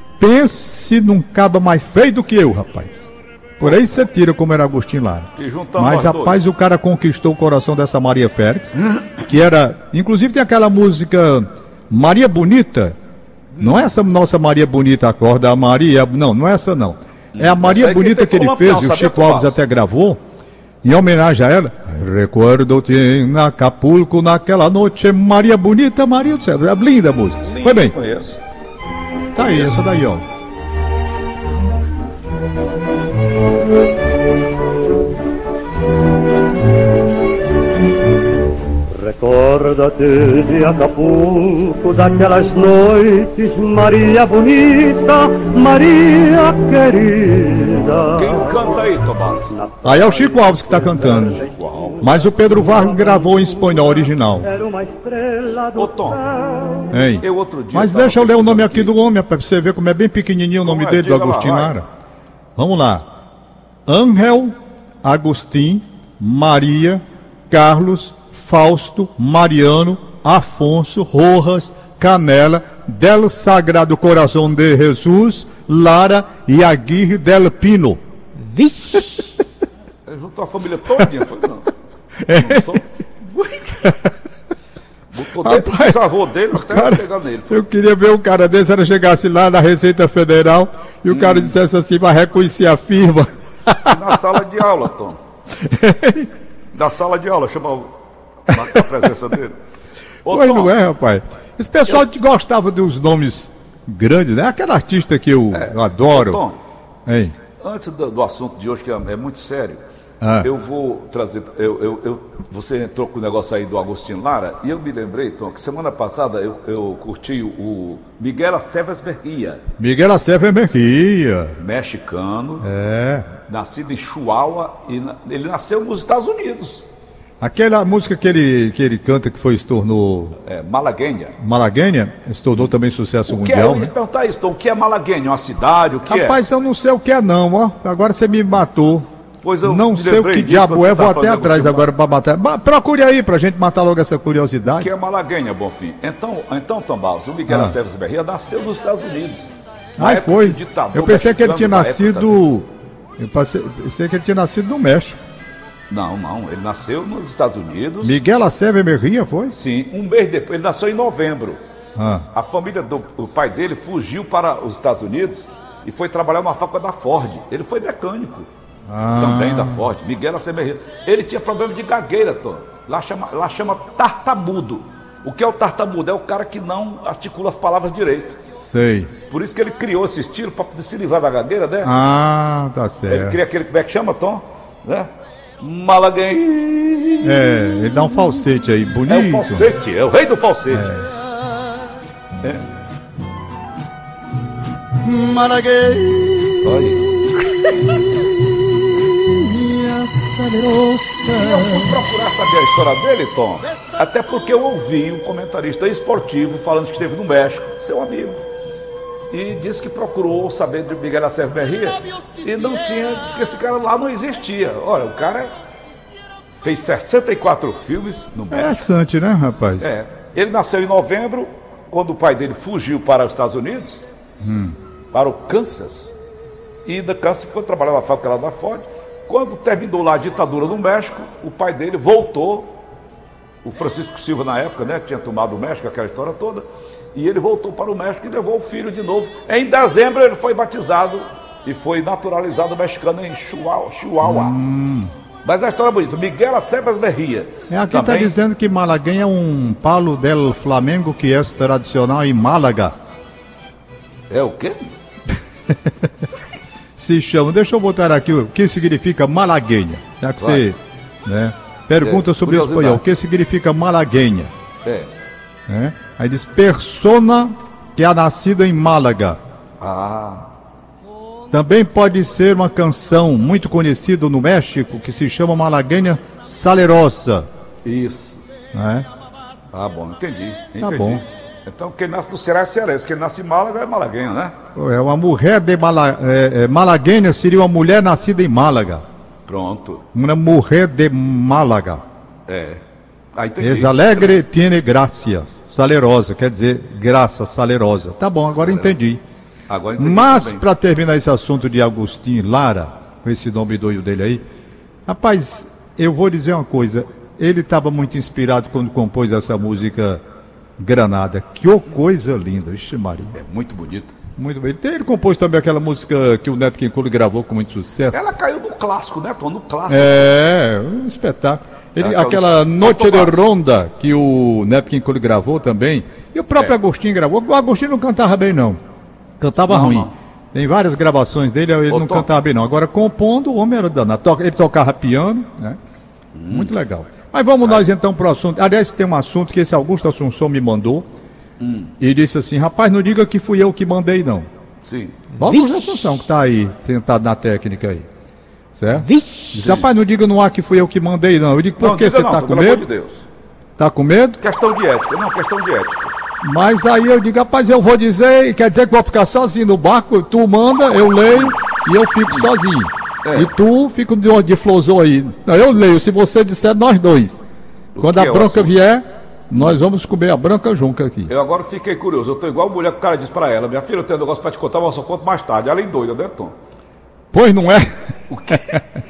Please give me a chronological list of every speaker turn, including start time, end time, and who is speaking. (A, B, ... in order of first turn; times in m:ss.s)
0:00.2-0:13.0 A
0:03.6-0:04.0 B
0:05.4-0:06.4 B
0:13.5-0:13.9 B
0:13.6-0:20.2 A
0:17.3-0:19.6 B
0:20.8-0:27.9 A
0:27.4-0:28.4 B
0:29.3-0:30.2 A
0:29.4-0:29.8 B
0:38.9-0:48.8 C
0:48.1-0:49.6 B
0:49.5-0:56.9 C
0:49.8-0:51.4 A
0:51.4-0:52.1 B
0:52.0-0:54.5 A
0:55.7-0:56.2 B
0:56.9-1:01.8 A
0:57.2-0:58.9 B
1:00.6-1:01.7 B
1:02.6-1:03.0 A
1:03.9-1:18.0 A
1:18.5-1:19.2 A
1:20.1-1:21.7 B
1:22.2-1:22.8 A
1:22.3-1:23.9 B
1:23.8-1:24.1 A
1:25.1-1:27.6 B
1:25.4-1:34.2 A
1:31.1-1:31.5 B
1:33.8-1:35.2 B
1:35.5-1:36.3 A
1:36.7-1:37.9 B
1:38.4-1:39.6 B
1:40.2-1:40.7 B
1:40.3-1:46.4 A
1:45.5-1:46.6 B
1:47.0-1:47.3 A
1:47.6-1:49.8 B
1:50.2-1:50.5 A
1:50.4-1:59.6 B
1:59.8-2:01.6 A
2:01.6-2:02.7 B
2:02.6-2:03.3 A
2:03.4-2:06.9 B
2:07.4-2:10.4 A
2:10.4-2:11.4 B
2:11.4-2:13.9 A
2:13.3-2:16.4 B
2:16.0-2:19.1 A
2:19.4-2:21.9 B
2:19.6-2:24.9 A
2:24.7-2:32.4 B
2:27.5-2:27.7 A
2:30.0-2:35.2 A
2:35.9-2:38.1 B
2:38.0-2:39.6 A
2:39.5-2:41.6 B
2:42.0-2:42.3 A
2:42.3-2:48.5 B
2:48.9-2:49.8 A
2:49.1-2:58.4 B
2:58.6-2:59.1 A
2:59.3-3:01.9 B
3:01.8-3:03.4 A
3:03.1-3:05.1 B
3:05.6-3:07.5 B
3:07.2-3:09.7 A
3:09.1-3:10.9 B
3:10.7-3:11.1 A
3:15.0-3:22.0 A
3:16.6-3:17.0 B
3:21.3-3:28.4 B
3:29.3-3:35.5 B
3:36.6-3:38.9 B
3:38.5-3:39.9 A
3:39.8-3:44.0 B
3:44.4-3:44.7 A
3:45.1-3:46.2 B
3:46.8-3:52.7 B
3:53.6-4:04.6 B
4:04.2-4:05.1 A
4:05.4-4:08.3 B
4:07.7-4:12.9 A
4:14.3-4:14.9 B
4:15.3-4:16.2 A
4:17.0-4:24.5 A
4:20.4-4:20.6 B
4:22.0-4:23.0 B
4:24.8-4:25.1 B
4:25.7-4:29.4 A
4:29.8-4:30.5 B
4:31.5-4:37.4 A
4:37.8-4:38.4 B
4:38.7-4:39.1 A
4:39.7-4:44.5 B
4:40.8-4:41.2 A
4:44.7-4:49.0 A
4:49.4-4:50.0 B
4:50.1-4:52.0 A
4:52.5-4:52.8 B
4:53.3-4:54.4 B
4:53.6-4:59.2 A
4:58.6-4:58.9 B
4:59.7-5:00.6 B
5:00.0-5:04.4 A
5:05.0-5:10.2 A
5:10.8-5:13.3 A
5:13.3-5:14.1 B
5:14.4-5:18.2 A
5:18.1-5:20.4 B
5:19.9-5:28.8 A
5:22.0-5:23.4 B
5:29.4-5:35.8 A
5:29.7-5:30.1 B
5:31.9-5:32.3 B
5:36.3-5:36.7 B
5:36.5-5:41.0 A
5:41.6-5:41.9 B
5:42.0-5:44.5 A
5:44.8-5:45.3 B
5:45.4-5:48.1 A
5:48.7-5:52.8 A
5:49.5-5:49.8 B
5:51.8-5:53.2 B
5:53.8-5:54.4 A
5:54.4-5:56.1 B
5:56.4-6:07.4 A
6:03.2-6:03.5 B
6:07.9-6:08.7 B
6:08.0-6:11.3 A
6:11.3-6:16.5 B
6:17.3-6:17.9 A
6:18.3-6:18.8 B
6:18.5-6:18.8 A